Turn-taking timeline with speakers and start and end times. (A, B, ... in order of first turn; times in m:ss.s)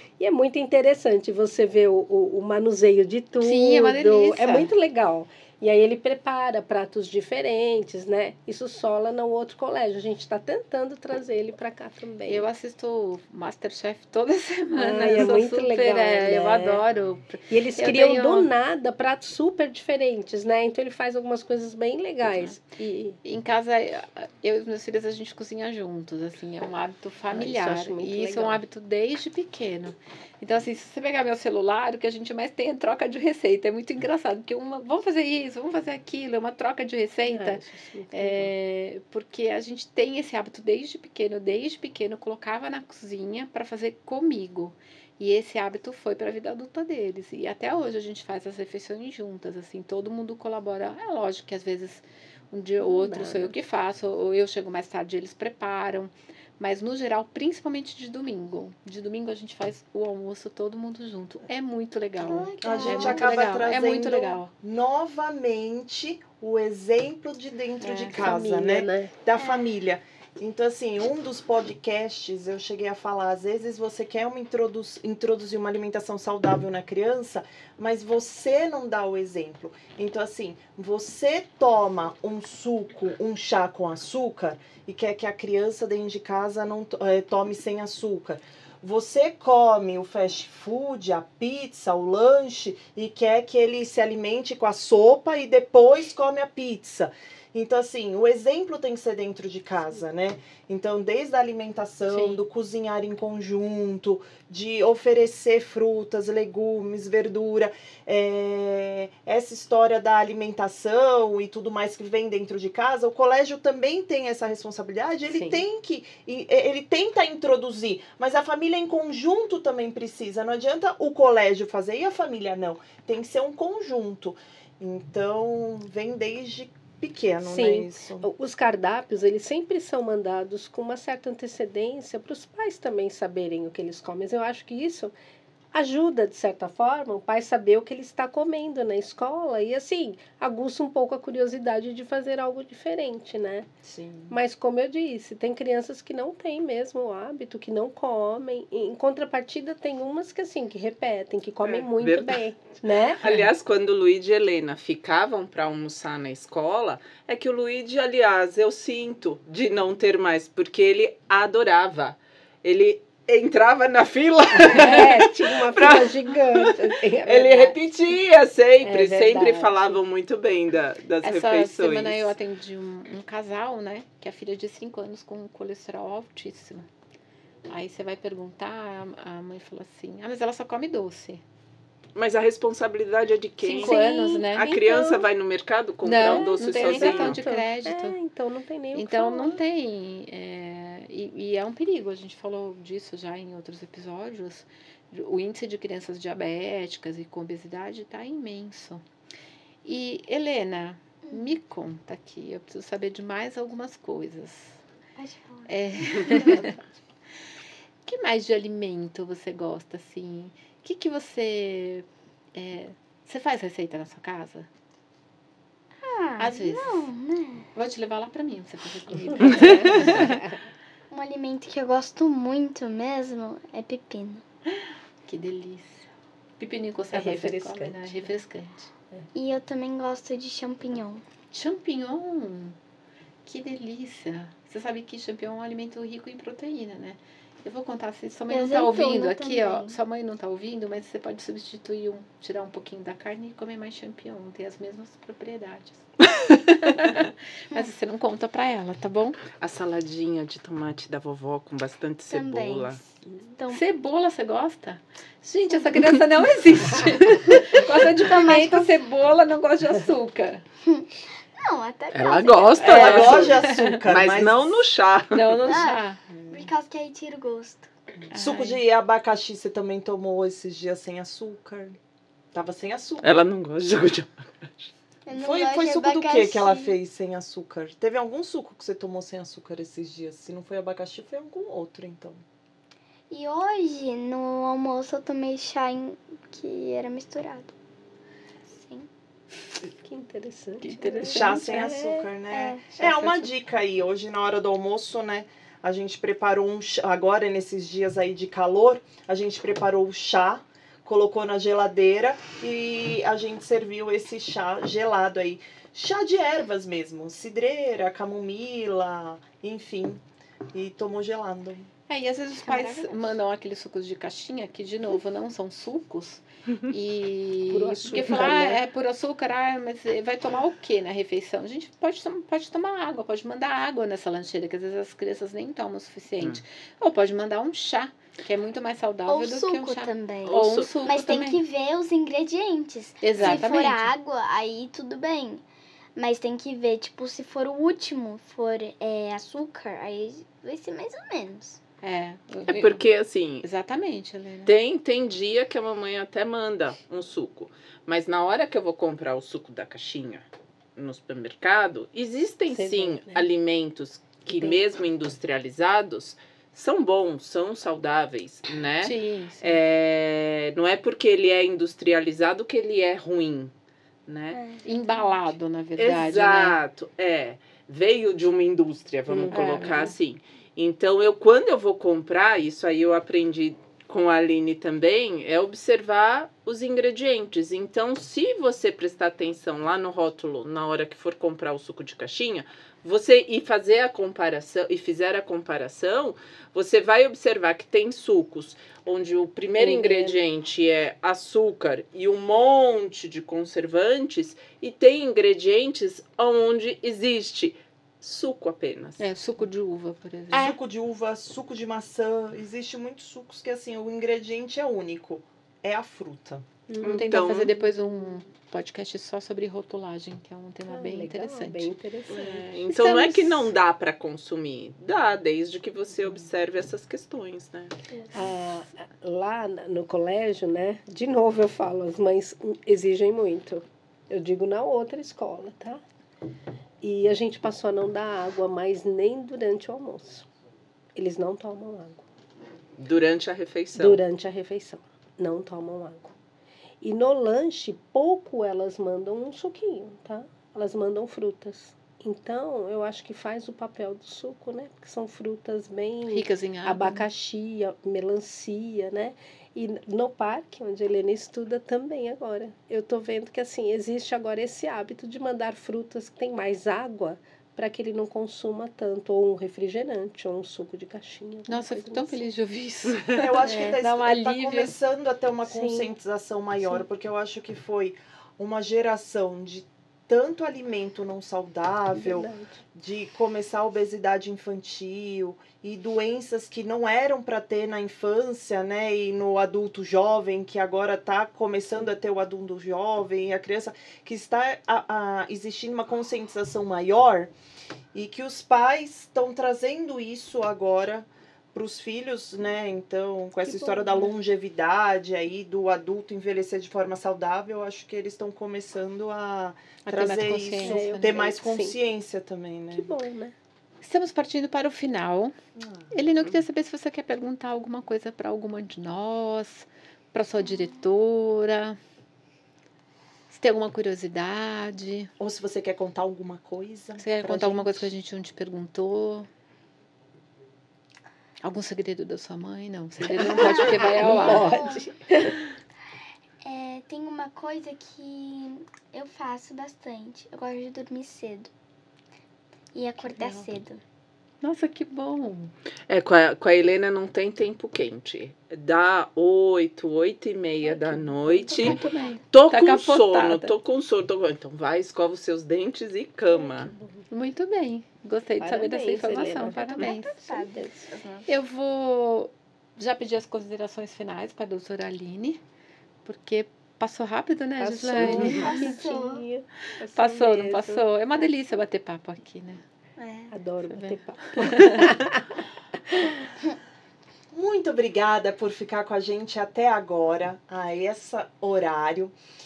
0:00.2-0:12.4 A
0:03.4-0:04.7 B
0:12.3-0:18.5 B
0:14.7-0:16.8 A
0:17.5-0:23.2 A
0:23.2-1:04.5 B
0:27.3-0:28.6 A
0:37.2-0:38.5 A
0:52.8-0:53.5 A
1:02.2-1:03.5 C
1:02.6-2:08.3 D
1:07.8-1:08.2 B
1:08.2-1:09.1 A
1:09.4-1:09.7 C
1:42.1-1:42.4 B
1:55.3-1:55.6 A
2:07.4-2:15.1 A
2:15.7-2:23.7 A
2:23.8-2:24.3 D
2:24.3-2:33.2 A
2:31.6-2:32.4 E
2:33.2-2:52.3 E
2:44.5-2:47.8 A
2:48.8-2:50.0 A
2:51.2-2:56.9 B
2:57.7-3:01.4 B
3:02.1-3:07.4 E
3:03.6-3:04.8 B
3:03.8-3:05.2 A
3:06.0-3:08.2 B
3:06.3-3:09.6 A
3:08.9-3:19.0 B
3:19.8-3:24.8 B
3:21.2-3:21.5 C
3:25.2-3:26.8 C
3:25.7-3:26.7 B
3:28.0-3:34.7 B
3:36.0-3:37.7 C
3:36.4-3:37.1 B
3:37.7-3:40.4 B
3:39.3-3:40.6 A
3:41.1-3:44.4 C
3:45.2-3:48.9 B
3:47.1-3:48.3 A
3:49.3-3:51.2 C
3:51.5-3:52.8 B
3:53.4-4:06.1 B
3:58.5-4:00.0 C
4:06.6-4:09.4 B
4:09.6-4:13.0 E
4:12.3-4:13.8 C
4:13.7-4:20.6 B
4:17.5-4:19.0 C
4:20.8-4:23.5 C
4:22.1-4:25.6 E
4:22.8-4:24.0 B
4:22.8-4:24.9 D
4:25.3-4:26.2 B
4:25.6-4:27.9 C
4:28.3-4:32.0 D
4:28.3-4:28.8 B
4:32.5-4:33.3 D
4:33.2-4:34.9 E
4:35.2-4:37.0 C
4:35.4-4:42.4 D
4:43.3-4:47.7 C
4:48.7-4:49.1 C
4:50.0-4:52.3 A
4:50.8-4:51.7 B
4:51.2-5:10.2 D
4:52.5-4:53.0 C
4:53.0-4:53.5 B
5:10.7-5:11.9 D
5:12.1-5:31.6 B
5:12.6-5:13.2 C
5:17.7-5:18.8 A
5:29.3-5:35.6 C
5:30.4-5:31.0 E
5:33.2-5:34.1 B
5:33.4-5:33.7 E
5:36.2-5:41.8 C
5:42.0-5:43.0 B
5:42.7-5:43.6 E
5:43.6-5:44.7 B
5:44.6-5:50.4 E
5:51.0-6:03.7 E
5:52.7-5:53.4 A
5:54.5-5:54.8 A
5:59.0-5:59.8 B
6:04.3-6:04.6 E
6:04.5-6:05.4 C
6:04.8-6:06.8 B
6:06.0-6:39.2 E
6:09.3-6:10.1 A
6:09.5-6:10.1 B
6:29.7-6:30.4 A
6:39.2-6:40.8 B
6:40.5-6:46.7 D
6:46.9-6:47.6 A
6:47.0-6:51.9 B
6:47.0-6:47.7 E
6:50.9-6:53.4 A
6:52.3-6:58.0 E
6:58.3-7:06.0 A
7:07.0-7:10.5 A
7:11.1-7:12.2 A
7:13.0-7:14.2 E
7:13.9-7:16.3 A
7:17.0-7:42.4 A
7:26.3-7:27.2 B
7:41.7-7:44.9 B
7:43.4-8:07.5 D
7:45.6-7:46.1 A
7:52.1-7:52.8 A
8:08.1-8:23.1 D
8:13.6-8:14.3 A
8:20.0-8:21.4 B
8:20.8-8:22.0 A
8:22.9-8:23.5 A
8:24.0-8:25.5 B
8:25.8-8:26.1 D
8:26.1-8:32.0 B
8:33.5-8:35.3 B
8:35.4-8:38.1 D
8:37.2-8:39.5 B
8:41.6-8:44.7 B
8:43.4-8:45.1 C
8:44.2-8:45.6 A
8:46.6-8:51.7 C
8:52.9-8:54.0 C
8:53.3-8:53.6 B
8:54.6-8:55.7 B
8:56.1-9:06.9 E
9:00.8-9:02.0 A
9:01.7-9:03.7 B
9:06.6-9:07.2 A
9:07.3-9:10.4 B
9:08.6-9:11.0 A
9:09.6-9:11.5 C
9:11.5-9:15.6 B
9:16.2-9:19.0 B
9:17.8-9:21.1 A
9:18.5-9:19.4 C
9:20.1-9:22.8 B
9:23.2-9:23.5 C
9:23.5-9:25.4 A
9:23.9-9:25.1 B
9:27.5-9:32.3 D